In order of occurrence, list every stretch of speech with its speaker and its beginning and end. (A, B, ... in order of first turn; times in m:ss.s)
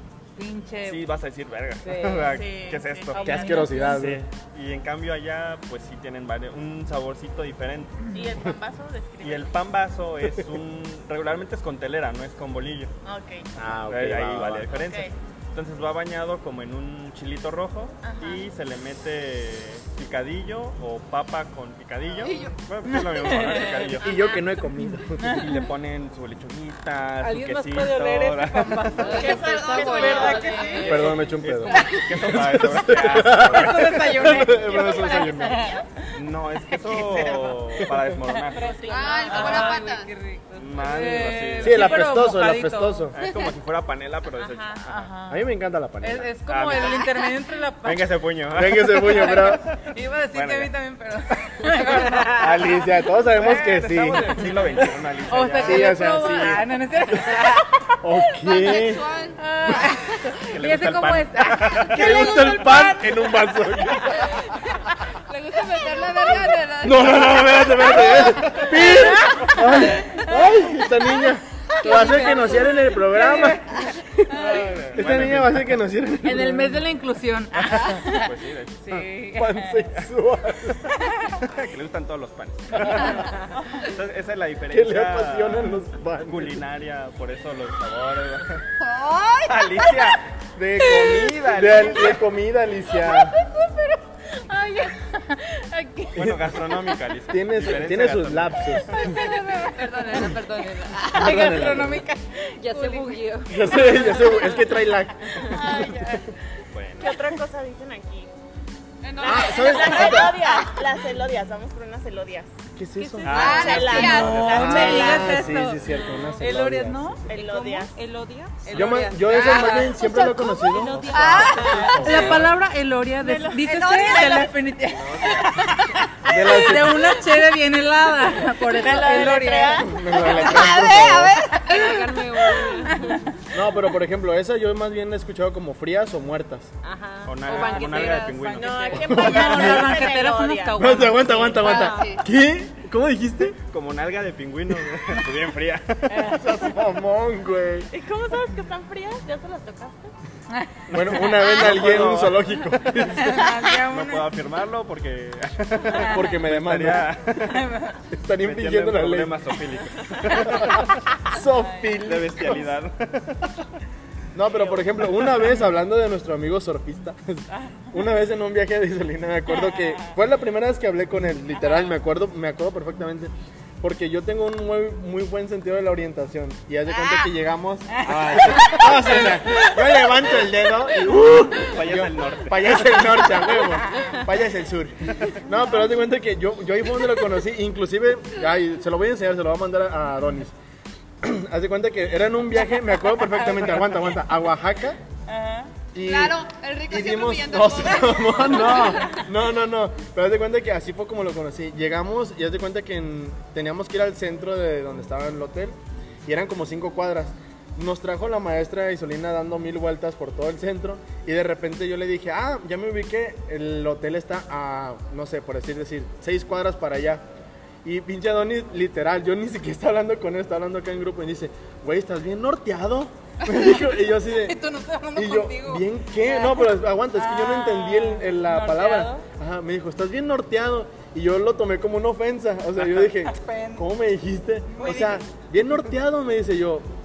0:00.4-0:01.0 A
0:00.8-0:08.0 B
0:02.0-0:02.4 C
0:02.3-0:03.4 D
0:03.1-0:04.0 A
0:03.2-0:04.2 E
0:03.4-0:03.9 C
0:08.1-0:09.6 D
0:09.2-0:12.9 B
0:13.0-0:13.5 D
0:13.6-0:14.7 E
0:13.9-0:24.3 B
0:14.7-0:15.1 D
0:18.0-0:18.5 D
0:22.2-0:22.6 F
0:22.9-0:24.0 A
0:23.8-0:24.5 D
0:24.0-0:25.5 E
0:24.8-0:25.6 A
0:25.3-0:29.3 B
0:27.2-0:32.0 A
0:29.0-0:31.2 D
0:29.0-0:30.8 C
0:29.2-0:31.0 F
0:30.8-0:34.4 B
0:30.9-0:35.7 E
0:33.4-0:36.1 A
0:34.5-0:35.8 D
0:36.1-0:39.7 B
0:36.7-0:37.6 A
0:38.2-0:43.2 A
0:38.6-0:39.8 D
0:38.9-0:40.1 F
0:40.6-0:42.1 B
0:41.6-0:43.2 E
0:43.1-0:45.1 B
0:44.4-0:44.8 D
0:44.9-0:45.5 A
0:45.3-0:46.3 E
0:46.0-0:48.2 A
0:46.5-0:47.1 B
0:47.8-0:49.5 B
0:48.5-0:49.6 E
0:48.8-0:52.8 A
0:50.3-0:50.7 B
0:52.3-0:54.9 E
0:53.4-0:56.1 B
0:55.3-0:58.0 A
0:55.6-0:56.6 E
0:58.0-0:59.1 E
0:58.4-1:00.0 F
0:59.4-1:04.4 A
1:00.4-1:02.1 B
1:01.7-1:04.5 E
1:05.3-1:08.8 F
1:06.8-1:14.3 E
1:08.0-1:10.8 A
1:11.8-1:15.0 A
1:11.9-1:12.5 F
1:12.0-1:12.8 C
1:14.3-1:15.7 B
1:14.9-1:16.9 E
1:16.2-1:19.9 A
1:17.7-1:19.1 B
1:19.4-1:20.9 E
1:20.9-1:21.4 A
1:21.4-1:28.6 B
1:22.8-1:23.2 E
1:24.7-1:26.6 E
1:28.8-1:30.1 F
1:29.4-1:30.2 B
1:30.6-1:33.4 E
1:30.8-1:32.2 B
1:33.1-1:36.2 A
1:36.1-1:38.8 B
1:36.2-1:36.6 E
1:37.3-1:39.2 E
1:38.9-1:40.4 A
1:39.0-1:41.5 F
1:41.1-1:44.4 A
1:41.1-1:42.0 E
1:42.6-1:44.7 C
1:43.5-1:46.3 E
1:45.5-1:46.3 F
1:46.7-1:47.2 B
1:47.0-1:48.3 D
1:49.0-1:50.7 F
1:49.2-1:52.5 D
1:49.2-1:50.4 E
1:52.8-1:57.4 E
1:53.0-1:53.9 C
1:53.2-1:55.4 B
1:53.3-1:54.6 F
1:53.4-1:55.4 D
1:53.9-1:55.8 A
1:55.7-1:56.5 C
1:56.4-2:10.7 A
1:57.3-1:57.9 D
1:57.9-2:02.3 C
1:58.7-2:02.5 E
2:01.1-2:01.9 F
2:01.3-2:02.3 D
2:03.2-2:04.5 D
2:04.0-2:04.5 F
2:04.9-2:05.6 B
2:06.3-2:07.2 E
2:08.5-2:10.1 D
2:09.8-2:11.4 E
2:10.1-2:12.2 F
2:11.6-2:13.3 C
2:12.8-2:13.2 A
2:13.5-2:16.7 E
2:16.8-2:19.7 C
2:17.2-2:19.0 B
2:17.4-2:18.3 A
2:18.5-2:21.3 D
2:19.0-2:21.6 A
2:19.1-2:20.0 E
2:20.8-2:23.6 E
2:21.6-2:22.2 C
2:21.6-2:22.2 F
2:23.7-2:26.4 B
2:26.1-2:26.5 A
2:26.3-2:27.9 E
2:27.9-2:30.1 D
2:30.5-2:31.2 A
2:30.9-2:32.5 B
2:30.9-2:33.5 E
2:32.9-2:34.3 A
2:33.7-2:37.7 B
2:35.8-2:36.3 A
2:36.0-2:37.2 E
2:37.4-2:38.0 A
2:38.1-2:39.4 E
2:38.4-2:41.0 B
2:40.3-2:40.8 A
2:40.4-2:42.7 E
2:41.4-2:42.0 A
2:42.0-2:43.7 B
2:44.3-3:10.5 E
2:44.8-2:45.2 B
2:47.5-2:47.8 A
2:49.5-2:50.2 A
2:56.9-2:57.3 F
2:57.9-2:59.8 A
2:58.0-2:59.3 B
3:01.6-3:02.9 B
3:11.2-3:15.0 E
3:15.3-3:15.7 A
3:15.9-3:37.2 E
3:16.0-3:19.2 F
3:18.5-3:18.8 A
3:37.8-3:44.6 E
3:44.3-3:49.3 A
3:45.2-3:56.9 E
3:52.8-3:53.1 B
3:53.2-3:53.9 A
3:54.7-3:55.2 A